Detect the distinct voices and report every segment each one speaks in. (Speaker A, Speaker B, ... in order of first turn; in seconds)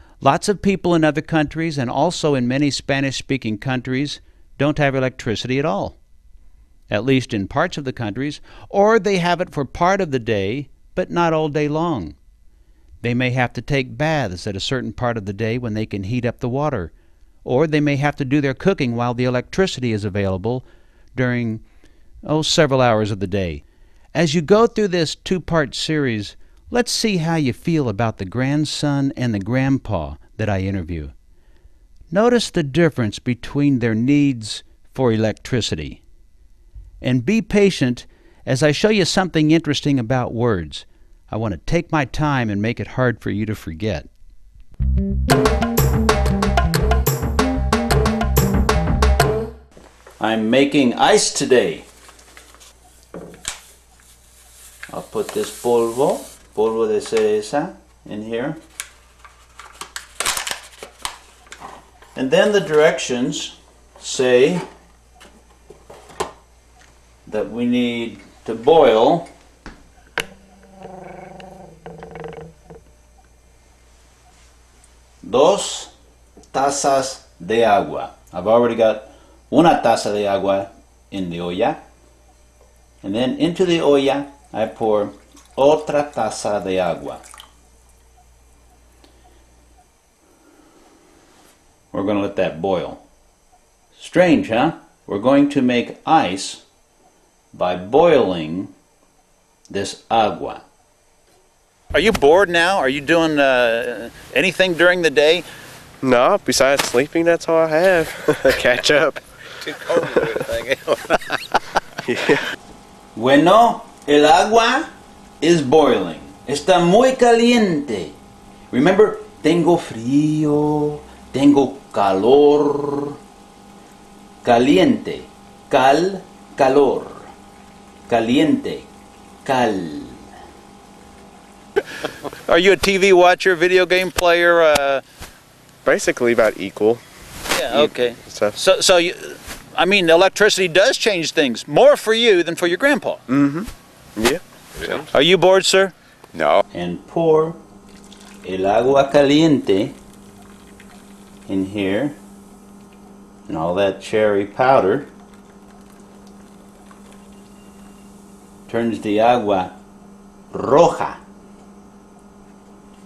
Speaker A: 0.2-6.0, 6.9-12.2, 13.0-16.9, 17.4-21.6, 22.3-31.1, 32.1-36.0, 37.0-44.1, 50.2-51.9, 54.9-58.6, 62.1-64.6, 67.3-69.3, 75.2-75.9, 76.5-81.8, 83.0-87.2, 91.9-93.0, 94.0-96.6, 97.5-98.7, 99.7-100.6, 101.9-105.5, 113.2-114.9, 115.4-118.2, 118.7-123.2, 124.4-127.3, 128.1-128.9, 129.4-130.2, 132.4-135.0, 137.5-143.2, 145.1-145.9, 146.7-147.6, 148.4-149.9, 151.5-152.2, 153.5-155.1, 158.7-159.8, 160.5-161.2
Speaker B: 106.0-109.2, 112.1-112.4, 135.8-137.0, 138.3-138.6, 143.3-144.4
Speaker C: 109.6-111.3, 144.8-145.1, 146.3-146.6